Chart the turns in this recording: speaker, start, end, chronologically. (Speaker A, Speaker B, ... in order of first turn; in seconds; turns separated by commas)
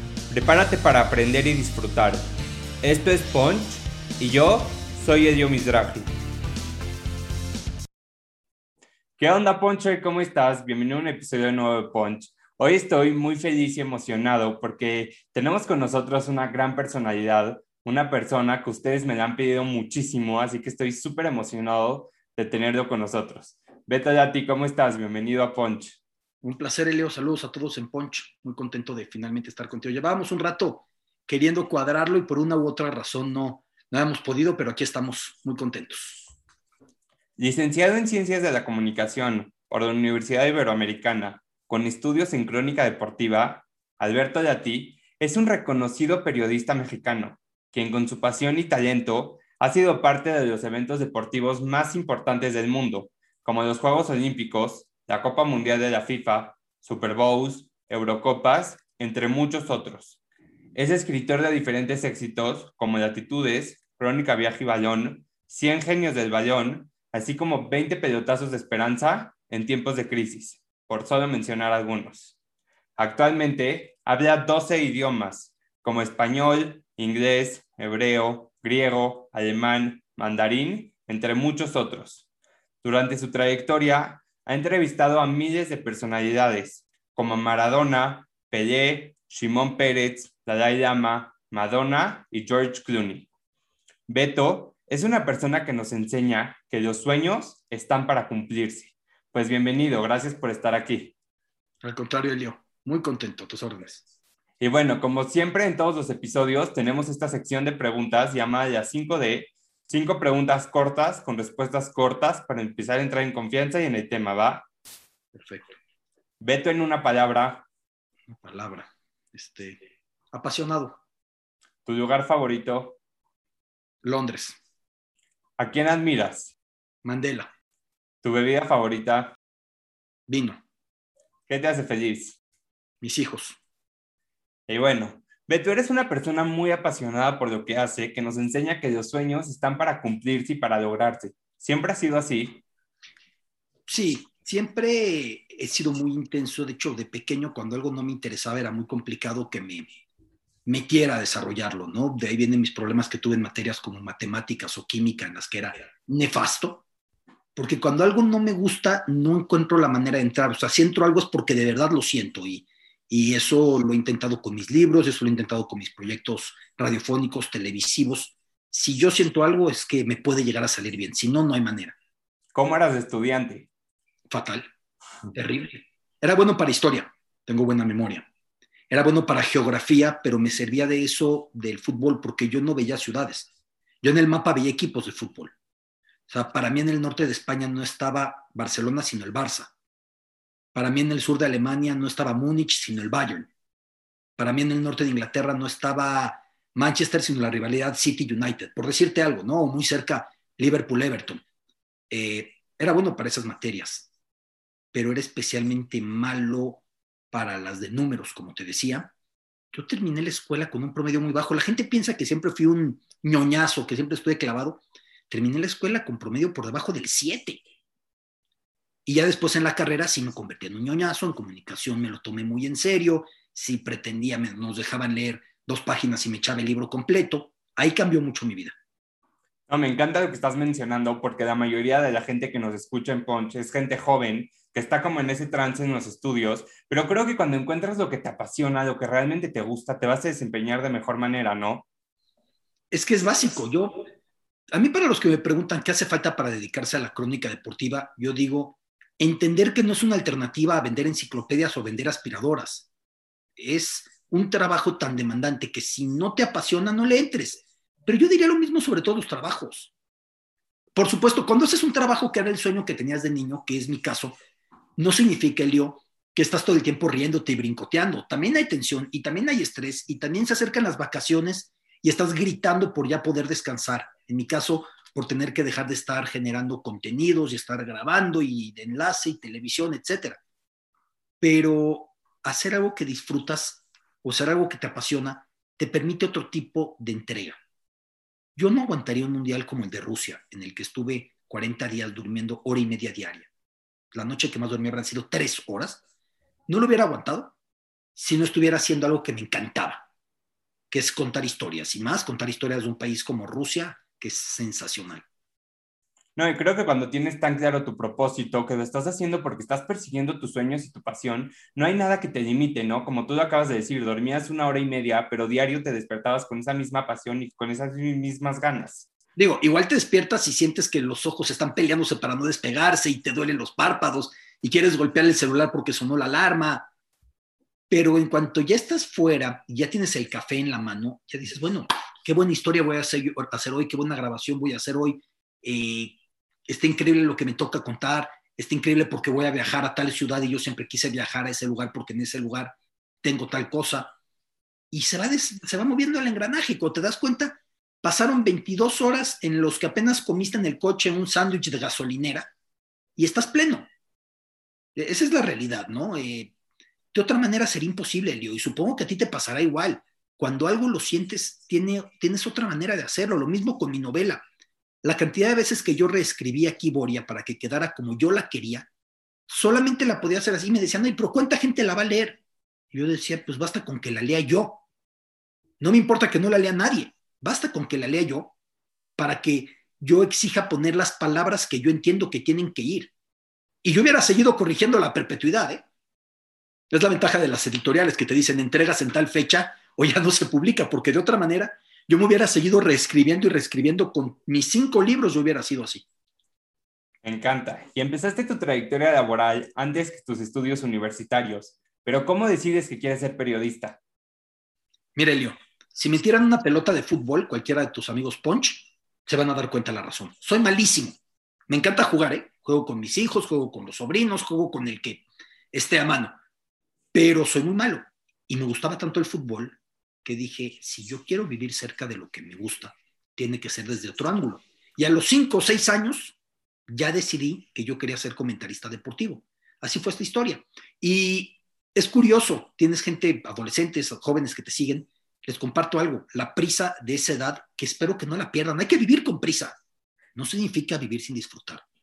Speaker A: 0.3-2.2, Speaker A: 2.8-6.1, Speaker A: 9.2-26.0, Speaker B: 26.4-36.3, Speaker A: 37.4-60.2, Speaker A: 60.8-72.3, Speaker A: 73.0-82.2, Speaker A: 82.8-93.3, Speaker A: 94.1-101.1, Speaker B: 101.8-104.0, Speaker A: 104.6-114.7, Speaker B: 115.3-115.7, Speaker A: 116.4-117.7, Speaker B: 118.3-119.8, Speaker B: 120.3-121.0, Speaker A: 121.9-123.0, Speaker B: 124.0-124.6, Speaker A: 125.6-126.5, Speaker B: 127.0-127.5, Speaker A: 128.2-129.4, Speaker B: 130.3-130.6, Speaker A: 131.5-132.4, Speaker B: 133.0-133.6, Speaker A: 134.7-142.6, Speaker B: 143.9-149.9, Speaker B: 150.7-156.8, Speaker B: 157.6-172.0, Speaker A: 172.5-173.7, Speaker B: 174.3-174.7, Speaker B: 175.3-178.3, Speaker B: 178.9-183.5, Speaker B: 184.0-185.5, Speaker B: 186.3-189.7, Speaker B: 190.7-193.5, Speaker B: 194.4-201.4, Speaker B: 202.1-204.1, Speaker B: 204.9-209.1, Speaker B: 209.7-217.6, Speaker B: 219.1-228.8, Speaker A: 229.7-241.8, Speaker B: 242.9-244.1, Speaker B: 244.7-252.9, Speaker B: 253.6-259.9, Speaker B: 260.9-264.4, Speaker B: 265.0-280.4, Speaker B: 281.4-287.6, Speaker B: 288.6-293.5, Speaker B: 294.1-296.0, Speaker B: 296.7-297.5, Speaker B: 298.2-300.1, Speaker B: 300.9-305.2, Speaker A: 306.4-319.1, Speaker B: 319.4-326.9, Speaker B: 327.9-336.2, Speaker B: 336.7-344.1, Speaker B: 344.9-352.5, Speaker B: 353.2-353.9, Speaker B: 355.0-356.5, Speaker B: 357.1-364.4, Speaker B: 365.0-368.9, Speaker B: 369.5-372.4, Speaker B: 372.9-374.8, Speaker B: 375.8-378.5, Speaker B: 379.2-383.1, Speaker B: 383.8-385.8, Speaker B: 386.9-396.1, Speaker A: 397.2-404.0, Speaker B: 405.1-411.2, Speaker B: 411.7-416.4, Speaker B: 417.1-426.4, Speaker B: 426.9-439.8, Speaker B: 440.4-441.8